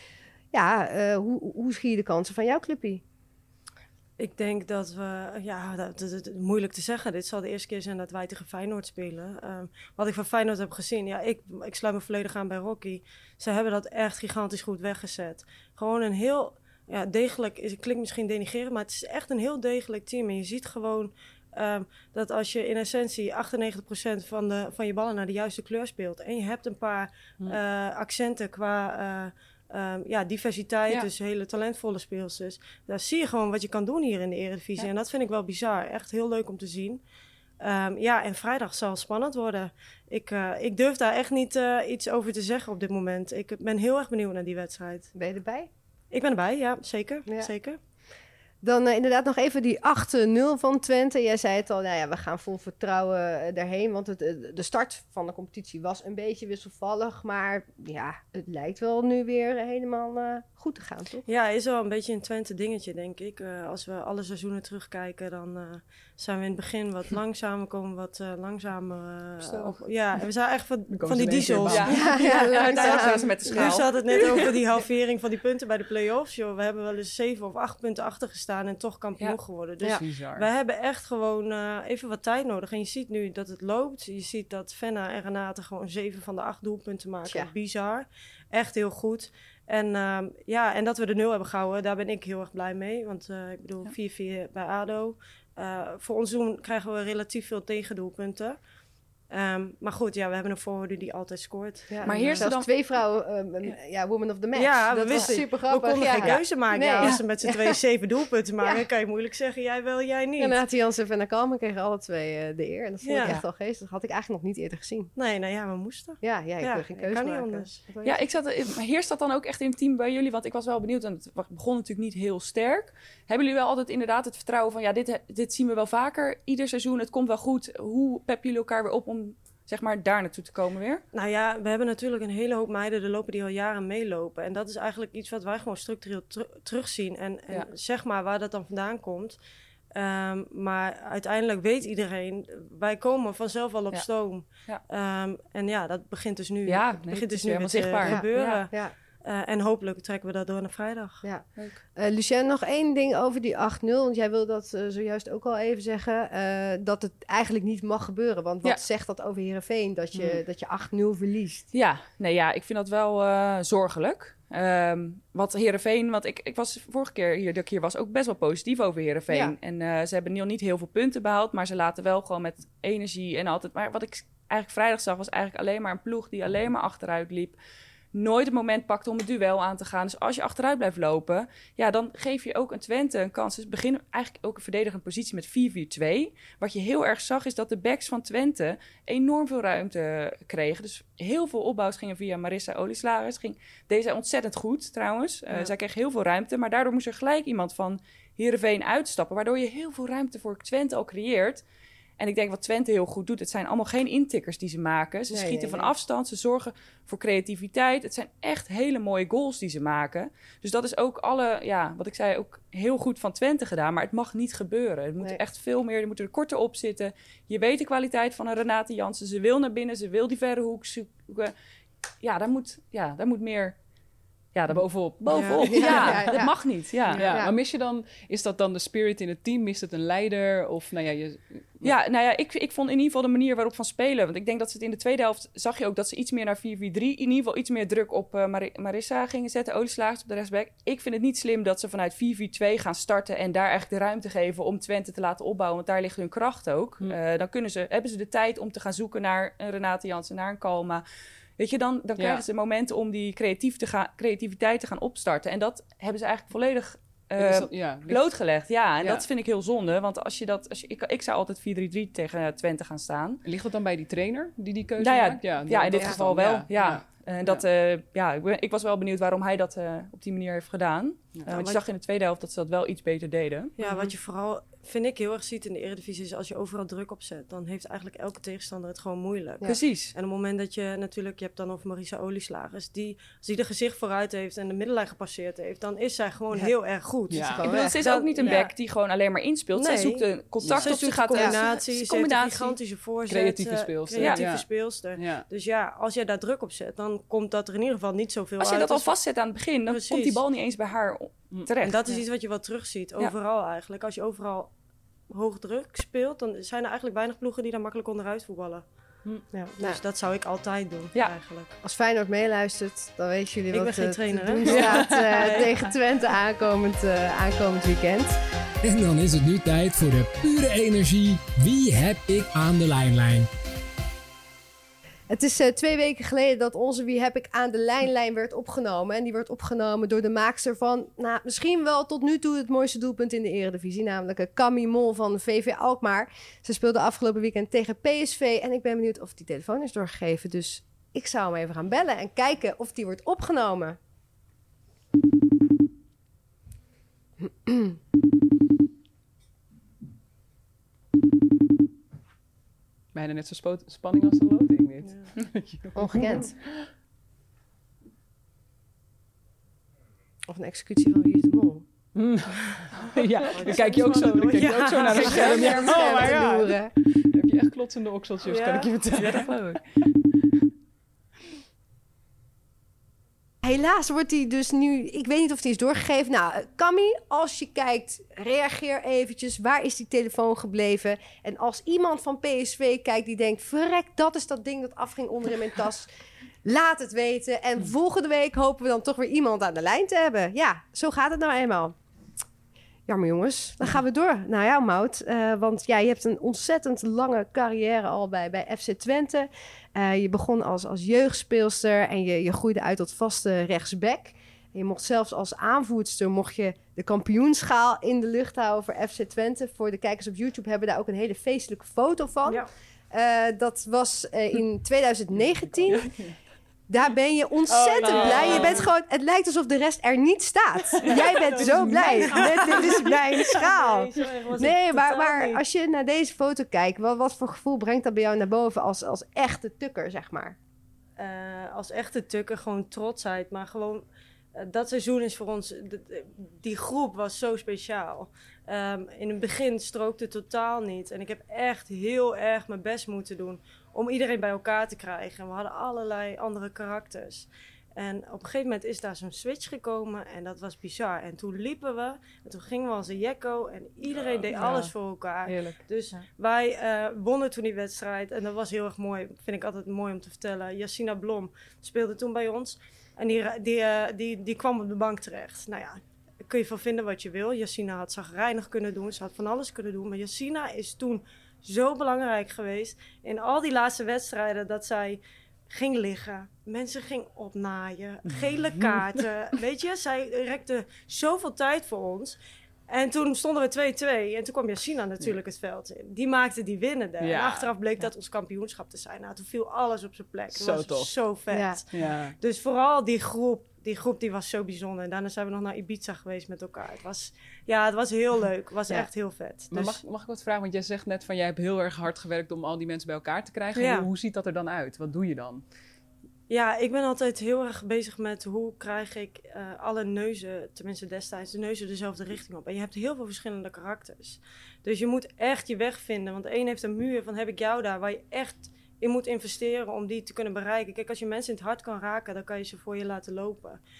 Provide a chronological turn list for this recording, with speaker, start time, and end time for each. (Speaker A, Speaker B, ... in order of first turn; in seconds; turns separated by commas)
Speaker A: 0.5-3.0, Speaker B: 4.2-37.0, Speaker B: 37.6-45.1, Speaker A: 45.1-45.7, Speaker B: 46.1-47.8, Speaker A: 48.6-61.2, Speaker B: 61.2-98.6, Speaker C: 69.4-69.8, Speaker D: 70.9-72.1, Speaker C: 71.7-74.5, Speaker A: 71.9-73.8, Speaker D: 79.8-80.5, Speaker A: 87.2-87.5, Speaker B: 99.3-102.5, Speaker A: 101.9-107.8, Speaker C: 102.0-102.7, Speaker B: 104.5-110.6, Speaker A: 110.4-115.1, Speaker B: 113.0-113.4, Speaker B: 115.2-117.8, Speaker A: 116.2-118.2, Speaker C: 118.0-131.0, Speaker B: 131.1-139.4, Speaker B: 139.9-151.2, Speaker C: 143.9-144.8, Speaker C: 146.7-148.7, Speaker A: 148.0-148.9, Speaker A: 151.2-161.6, Speaker C: 161.7-177.6, Speaker A: 169.3-169.5, Speaker C: 178.1-201.6, Speaker C: 202.2-221.5, Speaker A: 205.3-205.9, Speaker C: 222.2-223.8, Speaker C: 224.5-227.3, Speaker D: 224.7-231.9, Speaker B: 225.3-225.6, Speaker A: 225.6-227.5, Speaker C: 231.8-251.0, Speaker C: 251.6-263.4, Speaker D: 252.2-252.4, Speaker D: 257.4-258.3, Speaker D: 259.0-259.2, Speaker D: 263.4-267.6, Speaker C: 265.0-274.1, Speaker B: 271.5-271.8, Speaker B: 273.8-288.7, Speaker C: 279.6-280.1, Speaker D: 287.3-287.6, Speaker A: 287.3-288.0, Speaker C: 287.6-292.8, Speaker B: 289.7-299.1, Speaker D: 290.6-290.9, Speaker D: 293.3-295.4, Speaker C: 294.2-294.4, Speaker C: 298.6-302.0, Speaker B: 299.9-300.4, Speaker B: 301.8-304.7, Speaker B: 305.3-308.8, Speaker B: 309.5-311.7, Speaker A: 309.6-310.0, Speaker A: 311.8-318.4, Speaker B: 313.7-315.7, Speaker D: 314.6-315.6, Speaker E: 318.8-323.5, Speaker A: 325.3-344.0, Speaker A: 347.4-348.0, Speaker D: 353.1-356.6, Speaker A: 355.9-356.5, Speaker A: 360.5-361.8, Speaker D: 362.1-369.5, Speaker B: 363.4-366.0, Speaker A: 365.1-366.9, Speaker B: 368.5-368.9, Speaker C: 369.1-369.8, Speaker A: 373.6-386.1, Speaker A: 386.6-391.9, Speaker A: 393.1-416.1, Speaker D: 415.9-416.3, Speaker A: 416.9-430.6, Speaker D: 417.8-418.8, Speaker B: 417.8-418.9, Speaker B: 421.0-425.6, Speaker D: 421.6-423.1, Speaker B: 431.2-434.0, Speaker B: 434.5-500.0, Speaker D: 454.1-454.9, Speaker C: 454.5-454.8, Speaker D: 478.3-479.2, Speaker D: 487.2-487.7, Speaker D: 490.5-491.1, Speaker A: 491.5-491.8, Speaker D: 491.9-492.4, Speaker D: 499.7-505.6, Speaker B: 503.7-504.1, Speaker B: 506.5-523.8